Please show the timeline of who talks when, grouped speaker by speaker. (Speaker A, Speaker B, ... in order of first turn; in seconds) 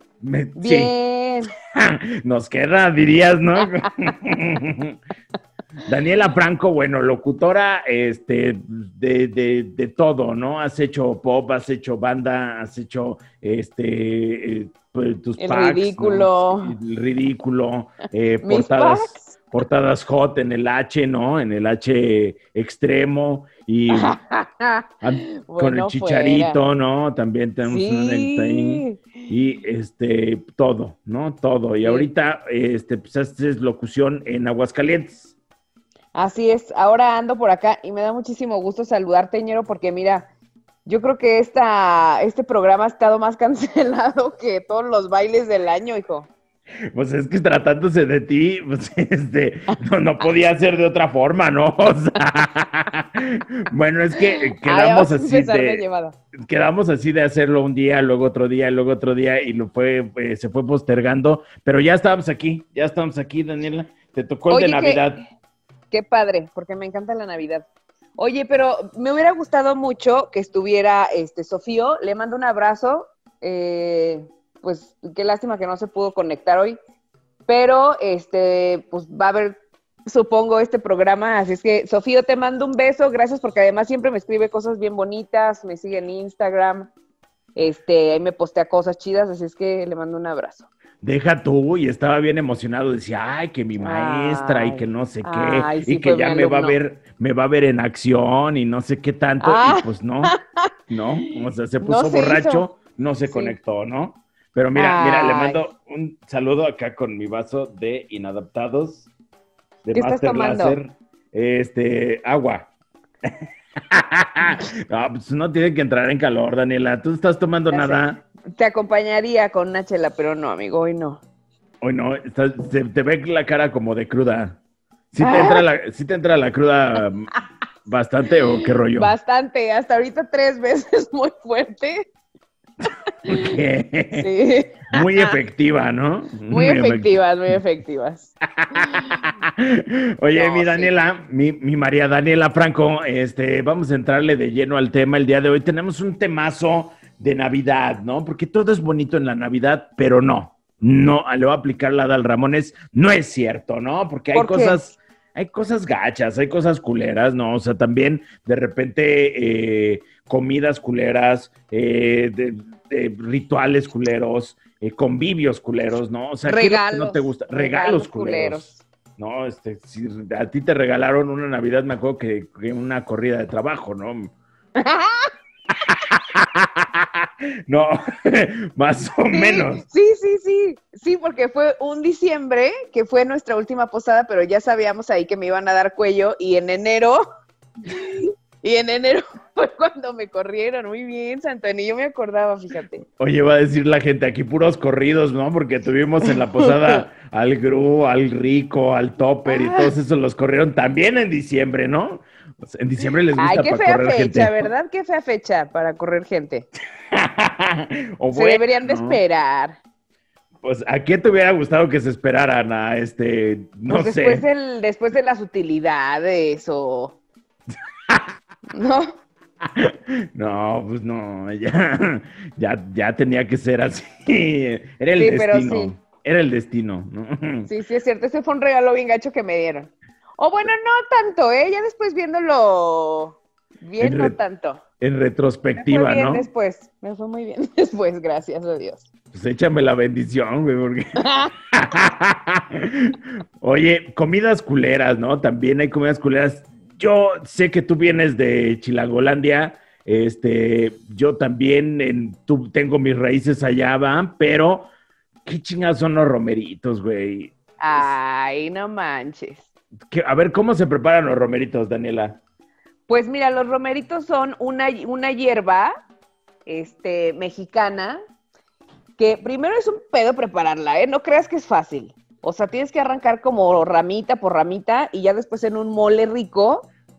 Speaker A: 0.2-0.9, 1.7-5.0, 5.8-24.1, 25.0-35.3, 46.9-55.8, 56.5-65.2, 91.0-100.3, 100.9-109.1, 109.8-112.7, 113.2-118.2, 121.8-124.6, 125.1-127.3, 127.8-129.1, 133.3-134.3, 134.9-137.1, 138.5-174.3, 175.7-179.8, 193.2-204.7, 207.1-209.2, 210.6-214.4, 218.1-218.3, 219.6-227.7, 234.0-234.4, 235.0-236.5, 239.3-254.9, 255.4-258.1, 260.1-262.4
Speaker B: 0.6-1.5, 15.4-16.7, 18.4-19.3, 23.9-26.6, 27.6-29.0, 31.8-32.1, 36.1-40.3, 40.9-46.3, 54.2-56.1, 64.5-65.1, 65.9-76.8, 77.5-86.9, 87.5-90.7, 93.8-96.8, 99.4-100.4, 101.8-102.7, 103.3-103.5, 104.7-105.6, 109.9-110.8, 117.7-121.2, 125.2-125.6, 128.4-132.1, 133.2-133.5, 134.1-135.3, 136.5-139.2, 140.3-140.9, 154.3-154.8, 166.4-168.8, 174.8-175.3, 179.3-187.2, 187.8-193.0, 196.2-197.0, 199.5-199.9, 203.4-206.7, 208.3-209.8, 213.9-217.1, 218.7-219.2, 225.2-225.9, 227.7-234.8, 235.7-239.1, 241.2-241.5, 257.8-259.6, 263.1-265.9, 266.6-268.2, 269.2-276.9